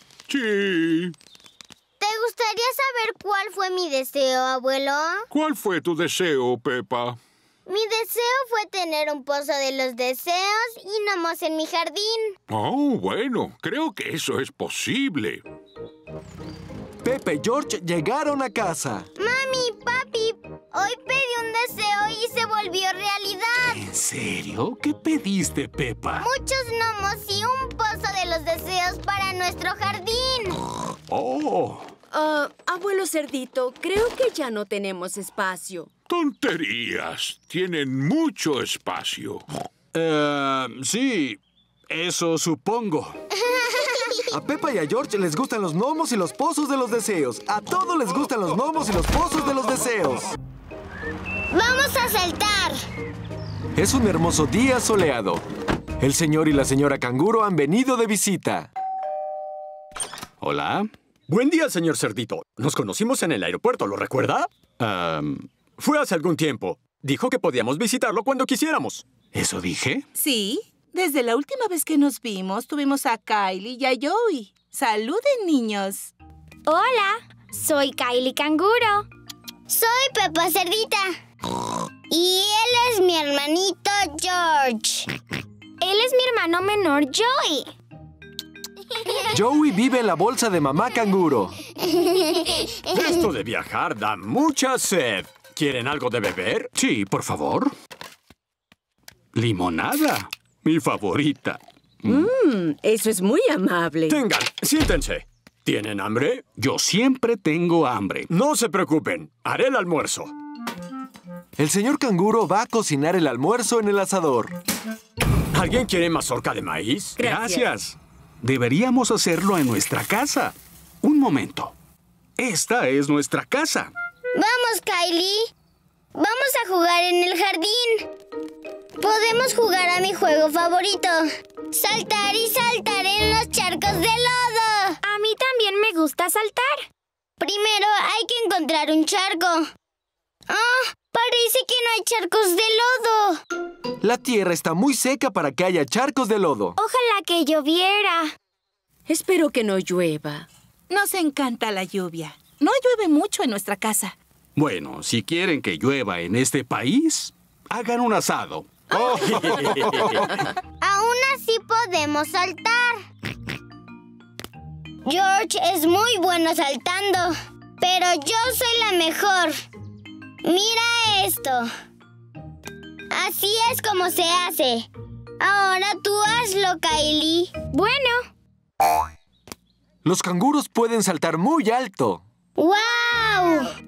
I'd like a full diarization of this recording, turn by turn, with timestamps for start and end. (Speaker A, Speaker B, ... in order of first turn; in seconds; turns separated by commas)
Speaker A: 0.3-1.1, Speaker B: 2.0-5.2, Speaker A: 5.3-7.2, Speaker B: 7.7-12.3, Speaker A: 12.5-15.4, Speaker C: 17.0-19.1, Speaker B: 19.2-23.8, Speaker D: 23.7-26.3, Speaker B: 26.2-30.6, Speaker D: 31.1-31.9, Speaker E: 32.1-35.9, Speaker A: 36.1-39.4, Speaker D: 39.9-43.2, Speaker B: 43.5-44.1, Speaker C: 44.3-50.3, Speaker B: 51.5-52.8, Speaker C: 53.7-55.4, Speaker C: 56.0-58.7, Speaker D: 60.4-60.9, Speaker F: 61.3-69.0, Speaker D: 69.3-70.0, Speaker G: 70.1-76.1, Speaker H: 76.7-79.1, Speaker B: 79.7-81.1, Speaker B: 82.1-85.1, Speaker H: 85.8-87.7, Speaker C: 89.3-91.5, Speaker B: 91.9-92.6, Speaker F: 92.9-96.7, Speaker D: 96.8-97.7, Speaker D: 99.3-102.3, Speaker E: 102.1-104.2, Speaker F: 104.1-106.4, Speaker D: 106.6-108.3, Speaker F: 108.3-110.3, Speaker C: 111.6-114.5, Speaker F: 115.5-117.2, Speaker D: 117.2-121.7, Speaker E: 117.2-117.6, Speaker D: 122.4-123.9, Speaker B: 124.3-125.5, Speaker B: 126.1-128.1, Speaker B: 129.0-135.0, Speaker H: 135.0-136.9, Speaker B: 137.4-139.7, Speaker B: 140.5-143.4, Speaker C: 144.0-146.8, Speaker H: 146.8-148.3, Speaker E: 149.1-150.5, Speaker G: 150.9-154.1, Speaker D: 154.6-160.3, Speaker B: 160.8-163.0, Speaker B: 165.0-169.6, Speaker B: 170.4-171.7, Speaker B: 173.1-174.9, Speaker B: 175.4-177.5, Speaker H: 177.7-178.3, Speaker C: 180.0-182.2, Speaker B: 182.6-183.7